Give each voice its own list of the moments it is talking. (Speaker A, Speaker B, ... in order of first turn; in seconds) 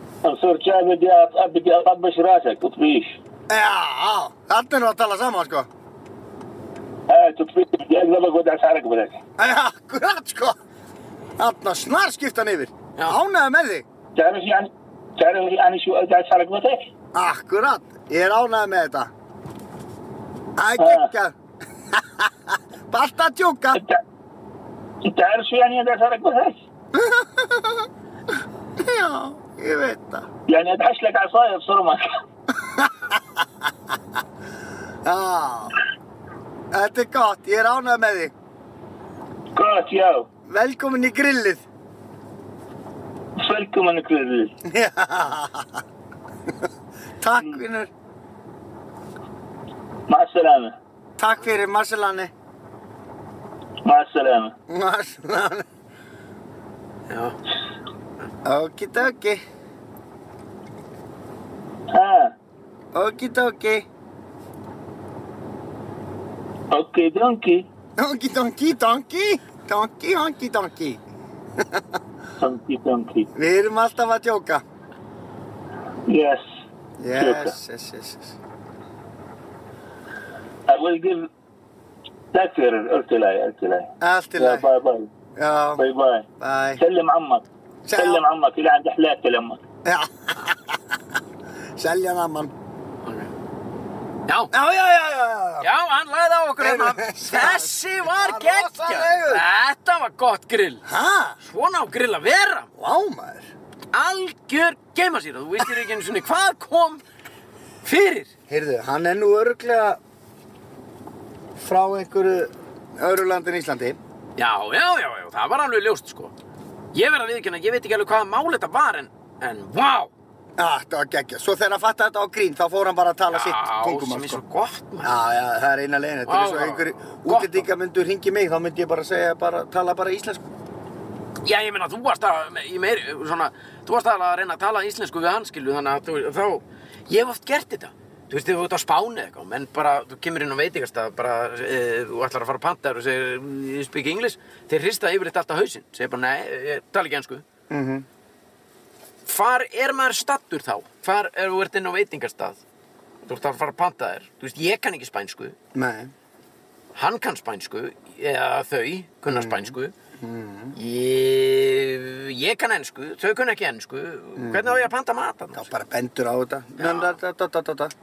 Speaker A: 0.2-3.2, 7.1-9.2, 14.1-16.9, 20.8-21.1, 23.8-24.0, 25.0-26.6, 30.5-32.1, 39.5-40.3, 43.4-44.5, 50.1-50.8, 53.8-54.5, 61.9-62.3, 66.7-67.7, 72.4-73.3, 76.1-76.5, 77.2-77.5, 80.7-81.3, 82.3-85.1, 85.8-86.3, 86.8-89.6
Speaker B: 3.5-5.7, 9.4-10.6, 11.4-13.8, 17.1-19.1, 20.6-21.4, 22.0-22.3, 22.9-23.8, 26.9-27.9, 28.8-30.3, 32.6-33.2, 35.0-35.7, 36.7-38.3, 40.5-41.6, 44.6-45.8, 47.2-47.9, 51.2-52.3, 54.7-55.6, 58.5-59.4, 62.9-63.9, 68.0-71.0, 73.3-74.6, 77.0-78.3, 84.0-84.7, 85.4-85.8, 86.4-86.8, 87.8-88.2, 89.8-90.7, 91.8-92.5, 94.5-95.7, 96.6-99.4, 100.8-101.4, 102.8-103.5, 108.5-110.0, 111.6-114.0, 120.6-124.4, 125.0-130.4, 147.7-148.1, 155.7-156.1, 159.3-160.8, 164.4-164.9, 165.5-167.9
Speaker C: 57.1-57.4, 93.0-93.3, 94.3-94.5, 95.6-100.8, 101.4-102.7, 103.9-107.0, 107.8-108.3, 114.4-116.3, 116.9-120.1, 123.3-125.1, 126.3-127.7, 131.4-147.4, 149.2-152.6, 153.2-155.6, 156.9-159.9, 160.7-165.7, 166.8-167.2